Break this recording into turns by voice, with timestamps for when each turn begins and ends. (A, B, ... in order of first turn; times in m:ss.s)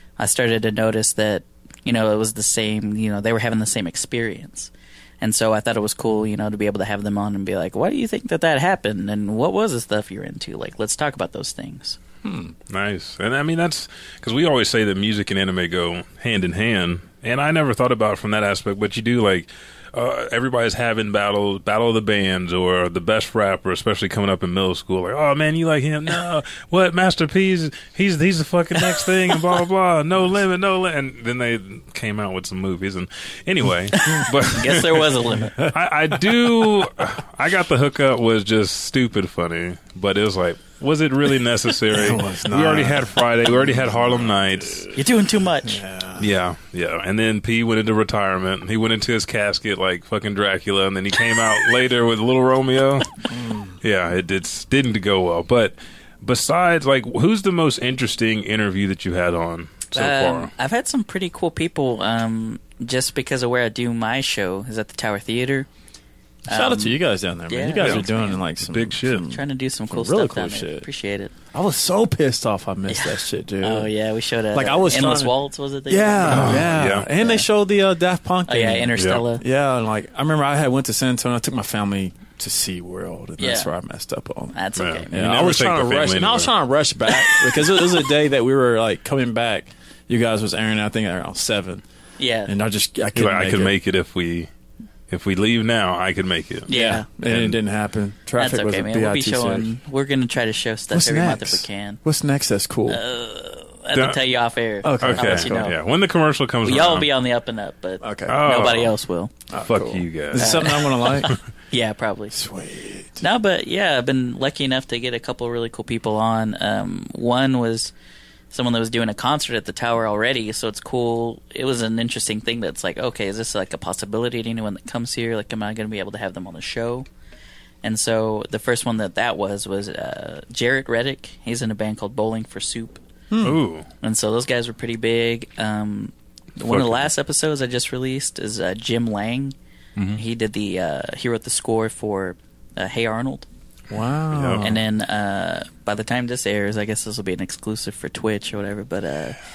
0:00.2-0:12.0 A
0:12.2-0:12.5 B
0:12.7-0:44.9 C
0:34.0-0:35.6 A
0:36.3-0:36.6 B
0:41.9-0:44.9 B
0:44.9-0:45.8 A
0:45.6-0:46.3 B
0:46.2-0:53.1 C
0:53.3-0:53.8 B
0:53.8-1:00.5 C
0:59.9-1:05.7 A
1:06.5-1:07.0 A
1:06.5-1:10.9 B
1:07.5-1:08.4 A
1:08.7-1:09.3 C
1:09.3-1:11.3 A
1:11.5-1:13.9 B
1:12.9-1:17.4 A
1:14.5-1:15.3 B
1:15.9-1:24.5 B
1:16.3-1:17.1 C
1:18.5-1:19.4 A
1:19.0-1:19.2 C
1:23.4-1:23.7 A
1:24.5-1:25.1 A
1:24.8-1:26.5 C
1:25.1-1:31.8 B
1:32.2-1:32.5 A
1:32.5-1:33.7 B
1:33.1-1:34.5 C
1:35.1-1:36.7 C
1:36.7-1:37.0 A
1:36.7-1:39.7 B
1:37.2-1:37.6 C
1:38.4-1:42.0 A
1:40.9-1:43.0 B
1:42.9-1:45.7 A
1:44.8-1:45.7 B
1:45.0-1:47.1 C
1:46.6-1:49.3 A
1:48.0-1:48.4 B
1:48.3-1:48.9 C
1:49.5-1:51.3 B
1:49.6-1:50.6 C
1:50.4-1:52.4 A
1:52.3-1:53.2 B
1:53.2-1:57.9 A
1:58.5-2:07.0 A
2:07.8-2:13.0 A
2:13.3-2:13.6 B
2:13.4-2:13.9 C
2:14.0-2:19.6 A
2:16.6-2:17.1 C
2:20.1-2:23.5 A
2:23.9-2:24.8 B
2:24.3-2:24.7 C
2:24.6-2:29.4 A